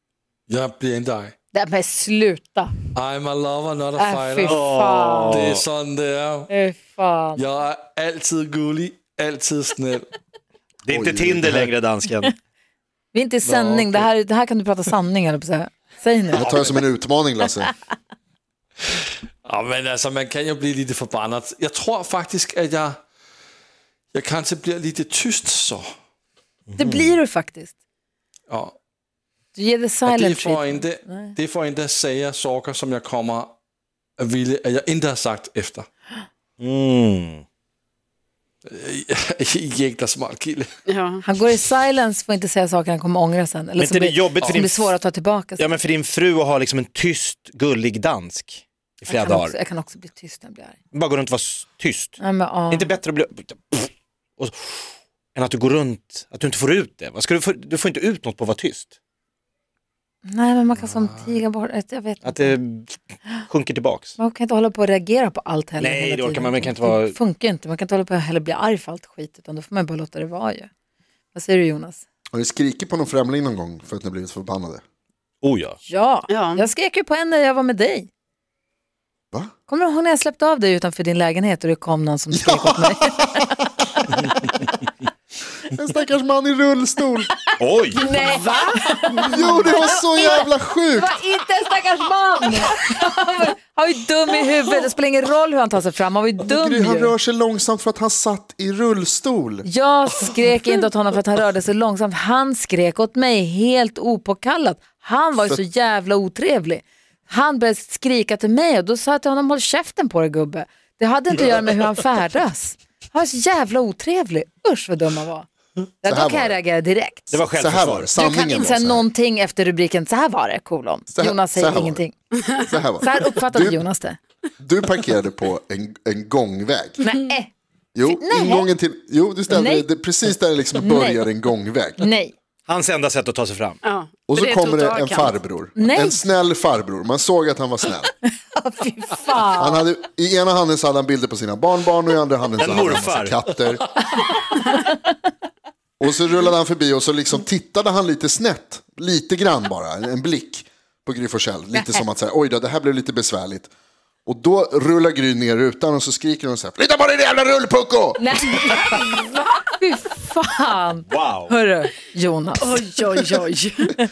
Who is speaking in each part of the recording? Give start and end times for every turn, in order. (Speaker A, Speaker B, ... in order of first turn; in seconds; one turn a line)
Speaker A: 0.5-1.3
Speaker B: 1.5-2.7
Speaker A: 2.9-4.7
Speaker B: 4.0-5.4
Speaker C: 4.5-5.6
Speaker A: 5.3-6.5
Speaker B: 6.5-7.4
Speaker A: 7.3-10.1
Speaker C: 10.8-12.3
Speaker D: 10.9-11.6
Speaker B: 13.1-16.4
Speaker A: 13.4-14.1
Speaker D: 16.3-17.7
Speaker A: 19.4-23.0
Speaker A: 24.1-25.9
Speaker C: 26.7-27.1
Speaker B: 26.8-27.7
Speaker A: 28.5-28.7
Speaker B: 29.5-31.3
Speaker A: 30.0-33.5
Speaker A: 34.2-35.9
Speaker C: 36.6-37.4
Speaker A: 38.6-40.7
Speaker E: 40.9-41.2
Speaker B: 41.2-45.7
Speaker C: 43.8-44.9
Speaker C: 45.6-49.5
Speaker B: 49.1-50.8
Speaker C: 50.9-52.2
Speaker B: 52.2-52.9
Speaker C: 52.7-58.9
Speaker B: 60.2-62.5
Speaker A: 60.8-61.2
Speaker C: 62.2-64.1
Speaker B: 64.2-70.7
Speaker C: 65.8-67.2
Speaker B: 71.3-72.0
Speaker D: 72.3-74.8
Speaker C: 75.4-75.8
Speaker B: 75.8-78.1
Speaker E: 76.3-76.7
Speaker B: 79.7-83.7
Speaker D: 82.3-83.5
Speaker D: 85.7-87.3
Speaker C: 87.6-88.0
Speaker B: 88.0-97.1
Speaker D: 89.2-91.2
Speaker D: 96.4-99.7
Speaker B: 99.6-115.5
Speaker B: 116.0-117.3
Speaker D: 116.0-116.6
Speaker C: 117.3-118.1
Speaker D: 117.6-119.0
Speaker B: 118.2-122.2
Speaker D: 121.1-122.0
Speaker D: 122.6-123.8
Speaker B: 123.0-124.2
Speaker D: 124.6-127.0
Speaker B: 127.0-127.5
Speaker D: 127.9-132.0
Speaker B: 128.0-128.7
Speaker B: 129.5-129.9
Speaker B: 130.8-131.3
Speaker B: 132.0-132.3
Speaker C: 132.7-133.8
Speaker E: 133.8-135.3
Speaker D: 134.3-138.1
Speaker B: 135.8-136.2
Speaker B: 138.5-139.8
Speaker D: 139.6-143.8
Speaker C: 142.5-143.3
Speaker B: 144.4-145.0
Speaker D: 146.0-153.7
Speaker B: 151.7-152.0
Speaker D: 154.2-158.9
Speaker B: 158.2-162.8
Speaker C: 161.1-161.5
Speaker E: 162.6-163.9